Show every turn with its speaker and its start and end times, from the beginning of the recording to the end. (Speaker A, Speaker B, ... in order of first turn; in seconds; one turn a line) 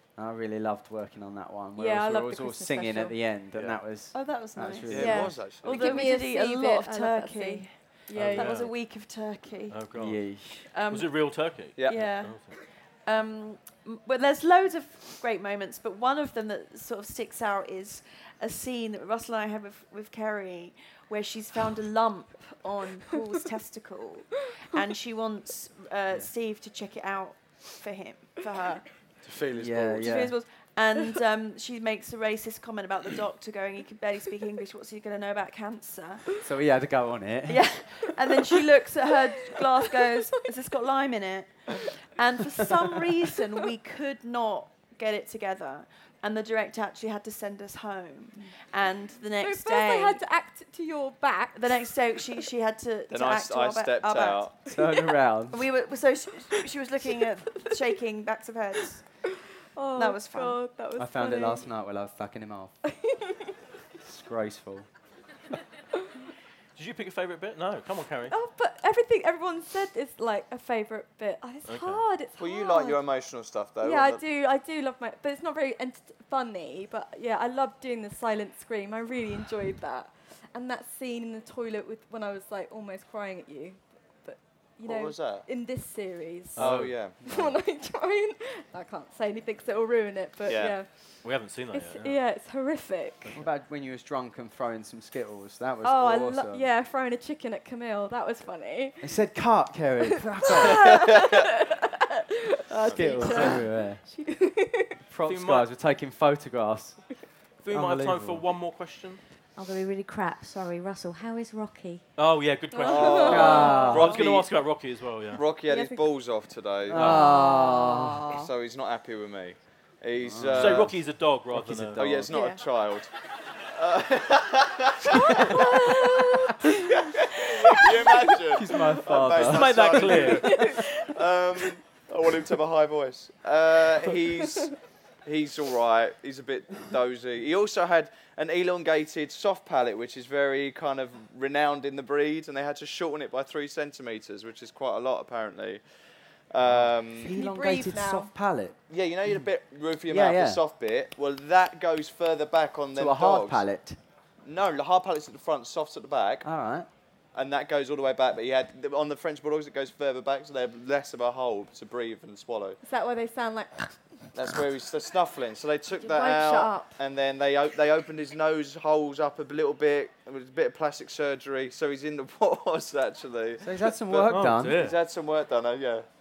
Speaker A: 0.1-5.5
Speaker B: 1.8-3.2
Speaker C: 3.5-3.8
Speaker D: 4.1-9.8
Speaker E: 4.9-6.0
Speaker B: 5.0-8.7
Speaker C: 8.1-8.7
Speaker C: 9.7-12.6
Speaker A: 9.9-10.7
Speaker D: 10.7-28.9
Speaker E: 11.8-12.0
Speaker E: 29.2-30.0
Speaker A: 29.5-30.3
Speaker D: 29.8-36.4
Speaker A: 36.4-37.7
Speaker D: 37.5-50.2
Speaker B: 39.5-40.3
Speaker B: 49.4-52.4
Speaker D: 51.5-54.5
Speaker E: 53.1-54.6
Speaker A: 54.7-55.6
Speaker D: 55.5-59.0
Speaker B: 59.7-61.6
Speaker D: 59.9-60.6
Speaker A: 61.0-62.7
Speaker B: 62.9-63.5
Speaker A: 64.0-64.9
Speaker C: 66.8-68.3
Speaker B: 68.3-73.0
Speaker C: 71.7-72.0
Speaker E: 72.4-74.2
Speaker B: 73.8-90.9
Speaker E: 84.8-85.5
Speaker C: 86.5-86.9
Speaker E: 86.6-87.2
Speaker E: 90.5-90.8
Speaker C: 91.2-92.2
Speaker B: 91.7-93.3
Speaker A: 93.3-96.7
Speaker B: 95.8-99.1
Speaker A: 99.0-101.0
Speaker B: 100.4-102.2
Speaker E: 100.7-101.4
Speaker B: 102.7-105.0
Speaker A: 102.8-104.0
Speaker A: 105.1-108.5
Speaker C: 105.2-105.7
Speaker C: 107.6-109.2
Speaker F: 109.6-112.0
Speaker C: 112.2-115.4
Speaker B: 112.7-114.1
Speaker E: 112.8-114.5
Speaker A: 113.2-114.1
Speaker E: 115.3-117.3
Speaker B: 115.7-116.0
Speaker A: 116.9-118.3
Speaker B: 117.0-118.5
Speaker E: 118.3-121.0
Speaker A: 120.2-120.9
Speaker C: 120.5-122.3
Speaker A: 121.5-122.2
Speaker E: 121.9-123.1
Speaker B: 122.3-122.6
Speaker E: 123.6-126.2
Speaker B: 125.1-128.2
Speaker E: 126.9-145.8
Speaker A: 128.5-130.3
Speaker C: 129.3-130.7
Speaker B: 130.2-131.1
Speaker E: 146.5-147.3
Speaker A: 146.7-148.8
Speaker B: 147.3-148.3
Speaker E: 148.9-153.6
Speaker A: 150.1-150.6
Speaker A: 152.9-154.0
Speaker E: 154.4-156.5
Speaker A: 156.4-156.9
Speaker E: 157.3-162.8
Speaker B: 162.8-164.0
Speaker E: 164.3-176.1
Speaker B: 166.0-167.0
Speaker A: 173.6-174.8
Speaker C: 174.3-175.0